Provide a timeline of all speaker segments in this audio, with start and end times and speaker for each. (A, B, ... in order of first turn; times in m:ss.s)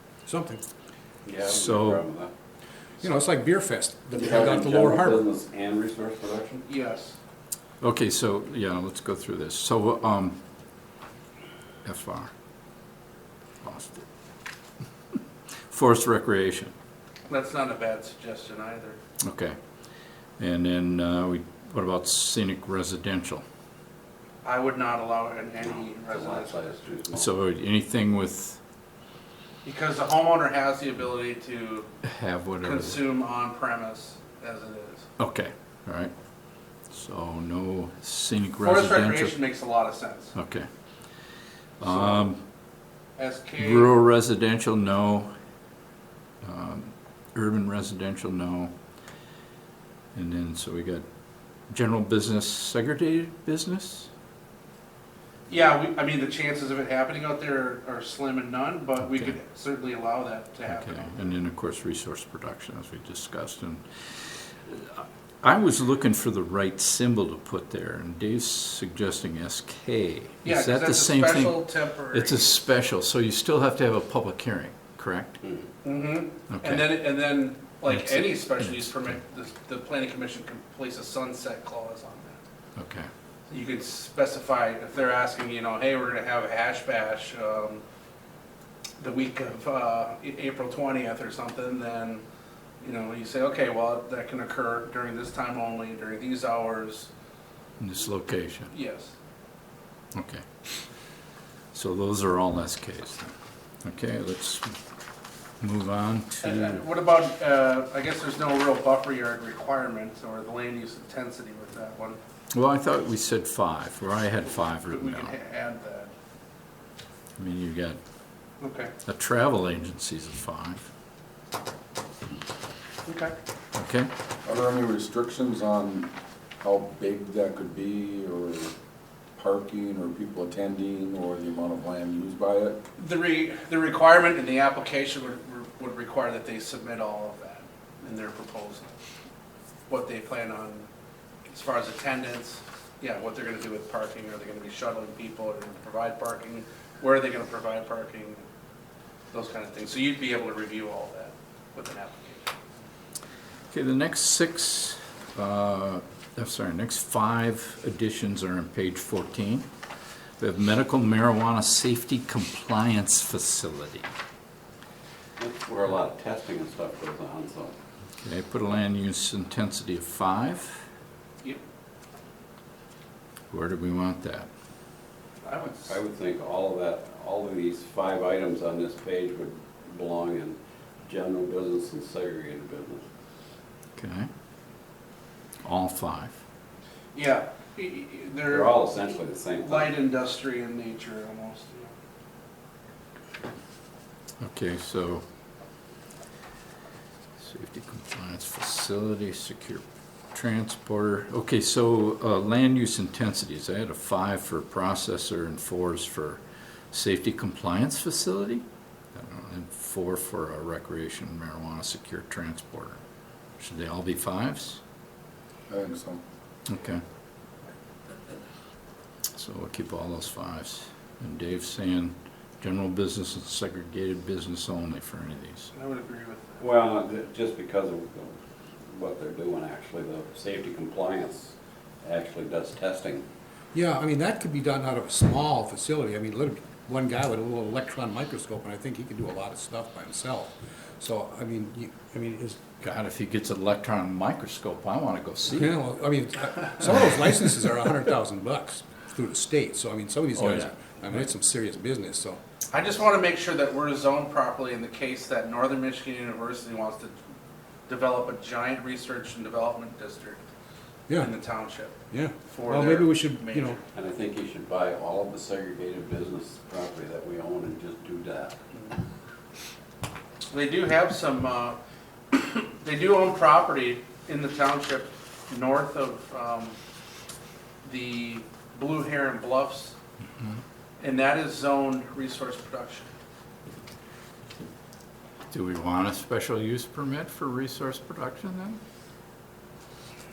0:00.3-0:00.6 A
0:01.3-0:02.3 B
0:01.4-0:02.0 C
0:03.0-0:05.3 A
0:04.1-0:06.6 B
0:06.7-0:07.2 D
0:07.8-0:10.4 C
0:11.8-0:12.3 C
0:13.6-0:14.0 C
0:15.7-0:16.7 C
0:17.3-0:19.0 D
0:19.2-0:19.6 C
0:20.4-0:23.4 C
0:24.4-0:26.9 D
0:25.6-0:27.3 B
0:27.1-0:28.6 C
0:29.6-0:31.9 D
0:32.0-0:33.0 C
0:32.6-0:35.1 D
0:35.2-0:36.1 C
0:36.9-0:39.4 C
0:38.6-0:40.4 D
0:40.4-0:40.7 C
0:41.8-0:42.4 C
0:41.8-0:42.2 D
0:43.2-0:43.9 D
0:43.6-0:45.3 C
0:46.4-0:48.7 C
0:50.2-0:51.0 C
0:51.7-0:54.1 C
0:55.5-1:01.3 D
0:59.0-0:59.4 C
1:00.7-1:15.4 C
1:10.4-1:12.5 D
1:15.8-1:22.4 D
1:16.5-1:17.0 C
1:17.9-1:19.2 C
1:22.8-1:23.1 C
1:23.5-1:27.8 D
1:29.0-1:32.2 D
1:32.8-1:37.1 D
1:37.8-1:38.7 C
1:38.7-1:39.1 D
1:40.2-1:40.4 C
1:41.7-1:43.3 C
1:43.8-1:44.8 C
1:45.6-1:46.8 C
1:46.4-1:52.2 D
1:52.5-1:55.4 C
1:54.9-1:56.1 D
1:57.4-1:58.0 C
1:58.6-1:58.9 D
1:59.0-2:00.8 C
2:03.0-2:03.3 D
2:03.8-2:04.1 C
2:04.4-2:08.7 E
2:09.4-2:12.8 E
2:13.0-2:18.9 D
2:19.9-2:20.9 D
2:21.5-2:28.4 D
2:29.3-2:32.6 D
2:33.7-2:39.7 C
2:40.4-2:44.1 C
2:45.4-2:47.7 B
2:48.2-2:50.8 C
2:53.5-2:54.5 C
2:55.4-2:56.0 D
2:55.9-3:03.0 B
3:04.0-3:04.3 C
3:05.6-3:06.3 C
3:07.1-3:08.8 D
3:08.5-3:09.9 B
3:09.6-3:11.9 D
3:14.4-3:15.2 C
3:17.4-3:26.4 C
3:26.9-3:33.0 C
3:33.6-3:34.8 C
3:35.7-3:36.2 E
3:36.7-3:37.0 C
3:39.3-3:45.7 C
3:45.7-3:46.7 D
3:46.6-3:48.3 B
3:48.9-3:53.2 B
3:53.7-4:02.7 A
4:02.8-4:05.8 C
4:05.5-4:12.4 A
4:10.4-4:11.0 C
4:12.7-4:17.2 D
4:17.9-4:20.4 D
4:21.1-4:21.4 A
4:21.2-4:23.8 D
4:22.1-4:23.8 A
4:23.9-4:28.6 B
4:30.5-4:31.8 D
4:32.3-4:36.8 D
4:37.8-4:40.0 D
4:41.0-4:43.1 D
4:45.5-4:48.8 C